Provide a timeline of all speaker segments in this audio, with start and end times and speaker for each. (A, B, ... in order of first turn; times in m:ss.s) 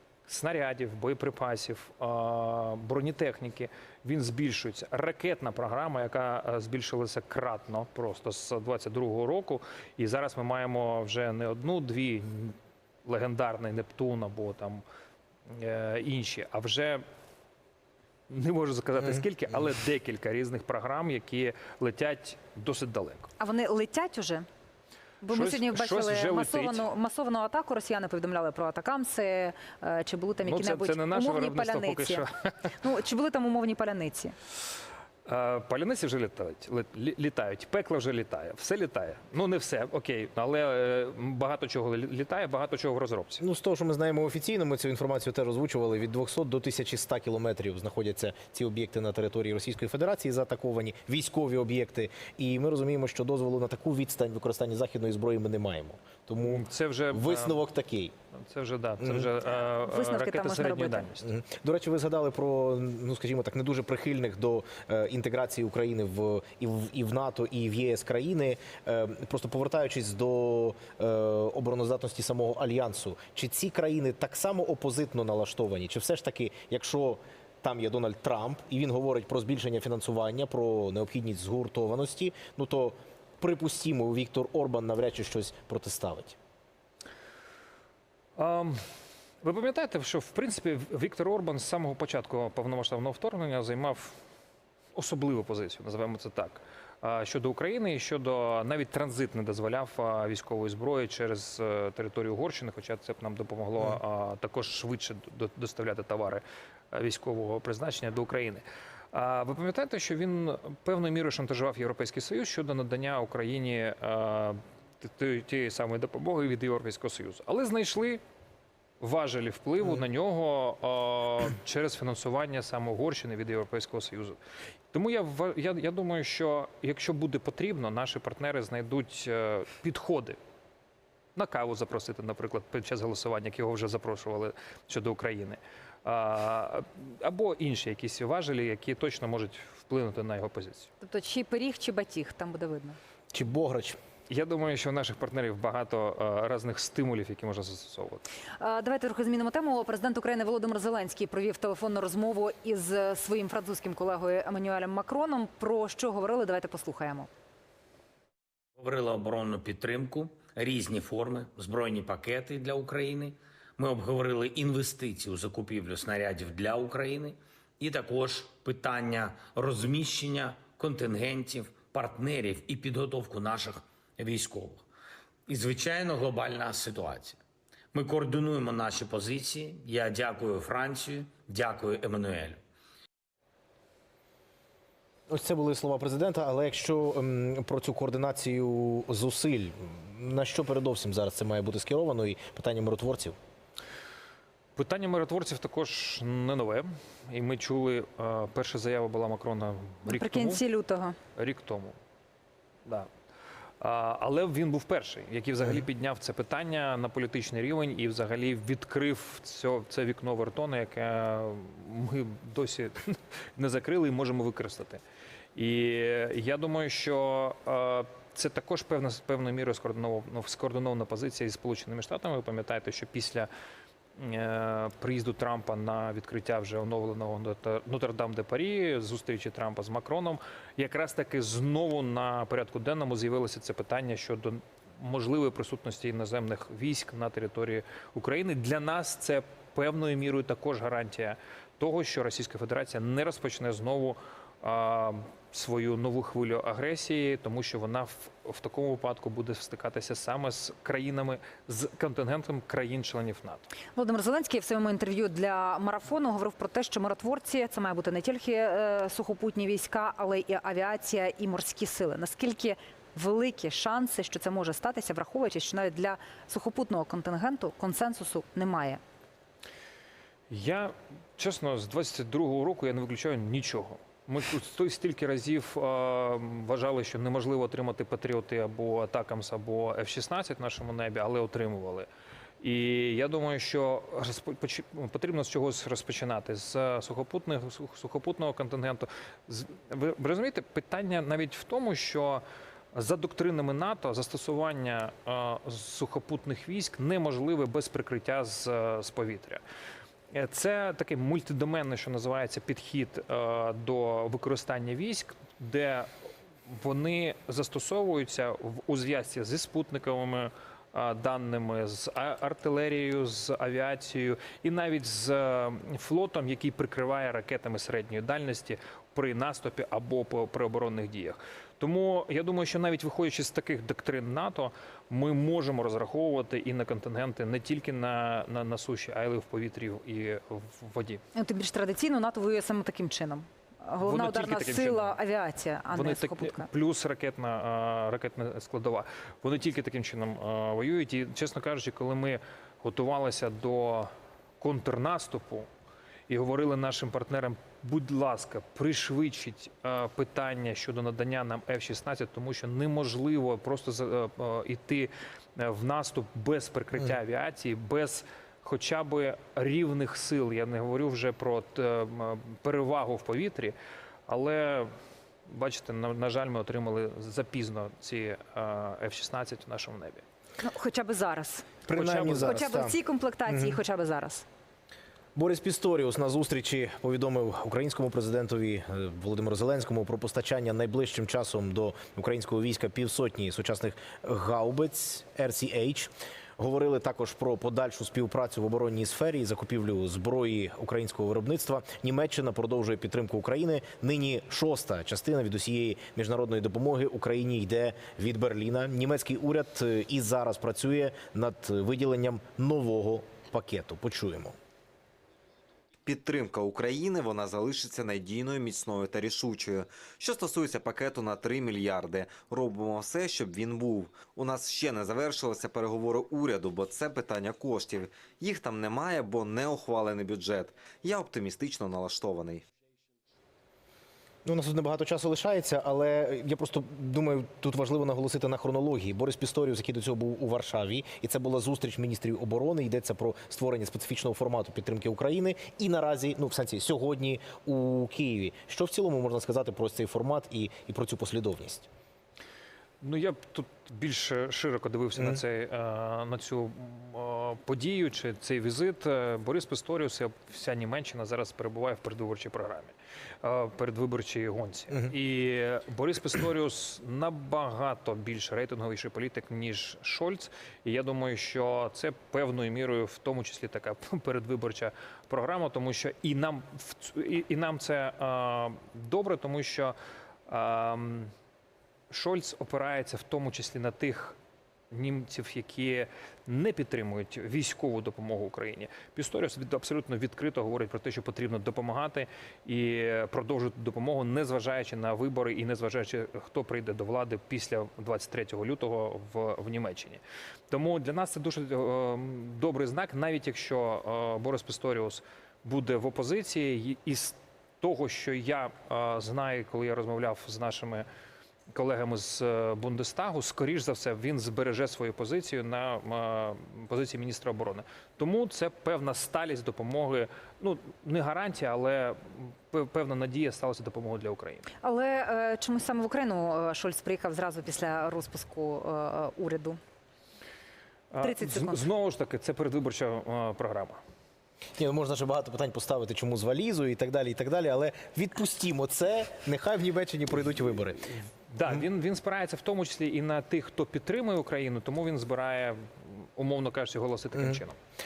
0:00.3-0:14.8 A
0:15.5-0:17.0 A
0:18.3-0:23.3 A
0:23.4-0:24.5 B
0:25.2-0:34.4 B
0:25.3-0:26.8 A
0:30.4-0:32.7 A
0:35.2-0:43.4 A
0:43.4-0:58.1 C
0:56.4-0:57.6 A
0:58.4-1:01.3 A
0:59.0-0:59.3 C
0:59.5-1:01.1 B
1:01.2-1:26.4 C
1:28.4-1:28.8 A
1:29.4-1:34.2 A
1:34.9-1:58.2 A
1:59.0-2:04.4 A
2:04.9-2:10.4 A
2:11.3-2:20.9 A
2:21.0-2:23.0 B
2:23.3-2:24.0 C
2:24.3-2:28.2 A
2:28.6-2:37.3 B
2:38.8-2:54.8 D
2:55.5-2:57.4 D
2:57.9-3:02.6 D
3:05.3-3:13.4 C
3:14.8-3:20.6 A
3:20.0-3:21.2 B
3:21.4-3:22.0 A
3:23.8-3:35.0 A
3:35.5-3:43.5 A
3:44.2-4:13.7 A
4:13.9-4:29.0 B
4:30.5-4:42.1 A
4:42.6-4:52.4 A
4:52.9-4:59.6 A
5:00.3-5:06.1 A
5:06.7-5:31.2 A
5:31.3-5:36.7 B
5:34.0-5:35.2 A
5:35.9-5:45.7 A
5:46.3-6:03.7 A
6:04.3-6:04.9 A
6:05.5-6:10.2 A
6:10.6-6:11.7 B
6:11.9-6:13.0 C
6:11.9-6:12.6 A
6:12.4-6:14.4 B
6:15.3-6:44.6 C
6:46.0-7:02.6 E
7:04.4-7:21.9 C
7:23.0-7:50.0 A
7:50.5-7:51.3 A
7:52.1-7:54.4 A
7:54.9-8:21.1 A
8:21.7-8:34.7 A
8:34.8-8:39.8 B
8:41.1-8:44.0 A
8:41.2-8:41.8 B
8:44.8-8:51.1 C
8:51.5-8:57.8 A
8:57.3-8:57.6 C